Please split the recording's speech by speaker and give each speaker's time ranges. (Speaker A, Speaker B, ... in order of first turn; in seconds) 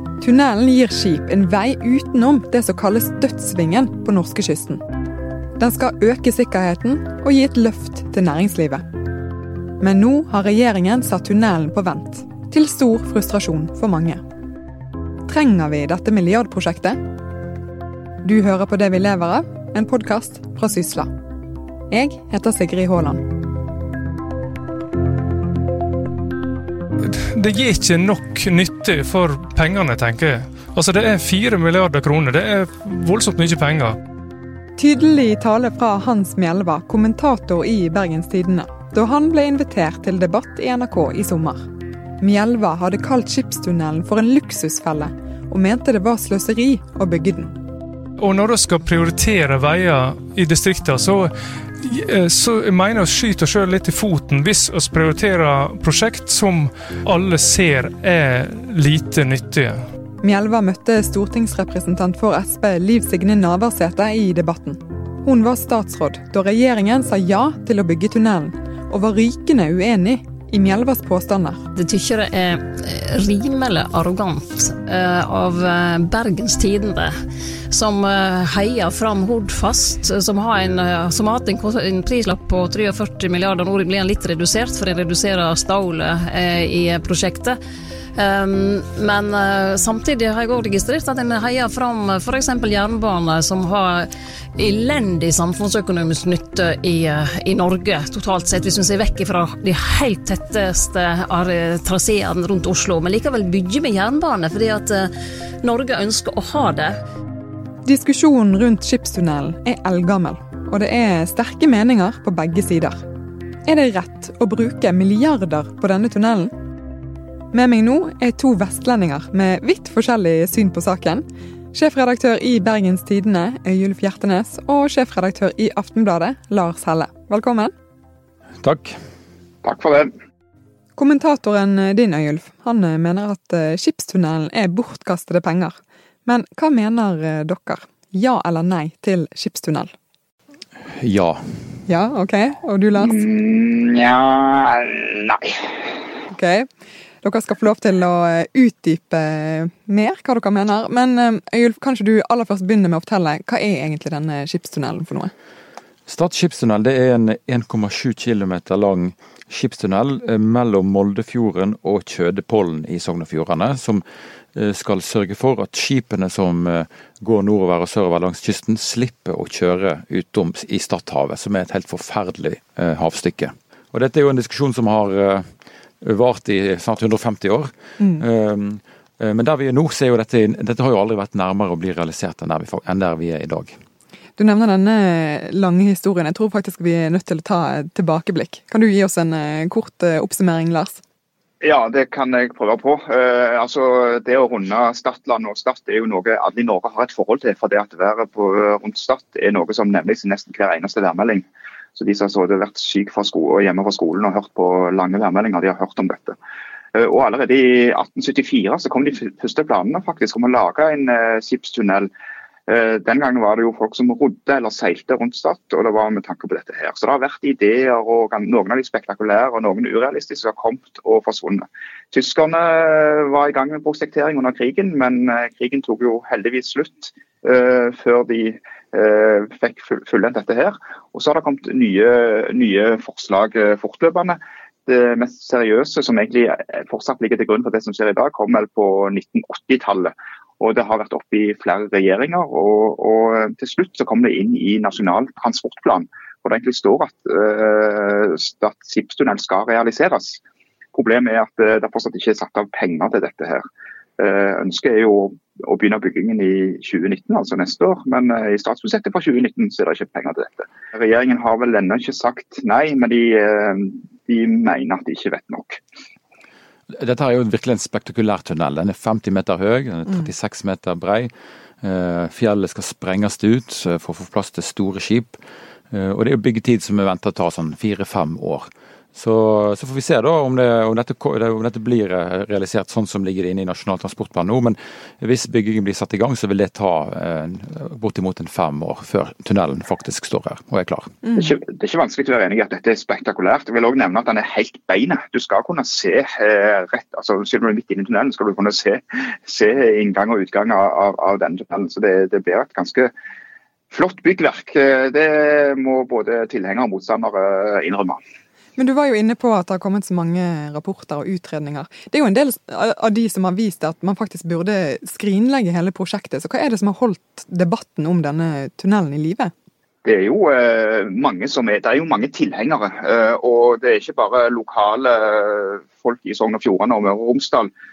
Speaker A: 0.2-4.8, 5.6-8.9, 9.8-14.2, 15.3-17.0, 18.2-21.1, 21.9-23.2, 34.8-41.6, 42.2-47.5, 60.2-71.7, 107.8-113.0, 113.7-116.5, 117.5-127.7, 131.0-139.9, 141.9-143.2, 146.3-146.7, 147.2-155.3, 184.4-191.0, 308.8-319.5
Speaker B: 27.1-34.0, 48.2-59.8
Speaker C: 71.8-77.1, 77.7-87.6, 88.2-105.1, 105.6-107.0
Speaker D: 128.6-129.0, 141.0-141.5, 156.1-164.0, 164.6-175.5, 176.0-183.8, 266.9-275.4, 275.9-291.1
Speaker E: 129.6-130.1, 143.0-145.7, 191.6-201.4, 202.0-206.4, 206.9-212.1, 212.7-250.4, 250.9-253.6, 254.2-265.8, 291.4-303.1, 303.9-308.2, 320.0-327.7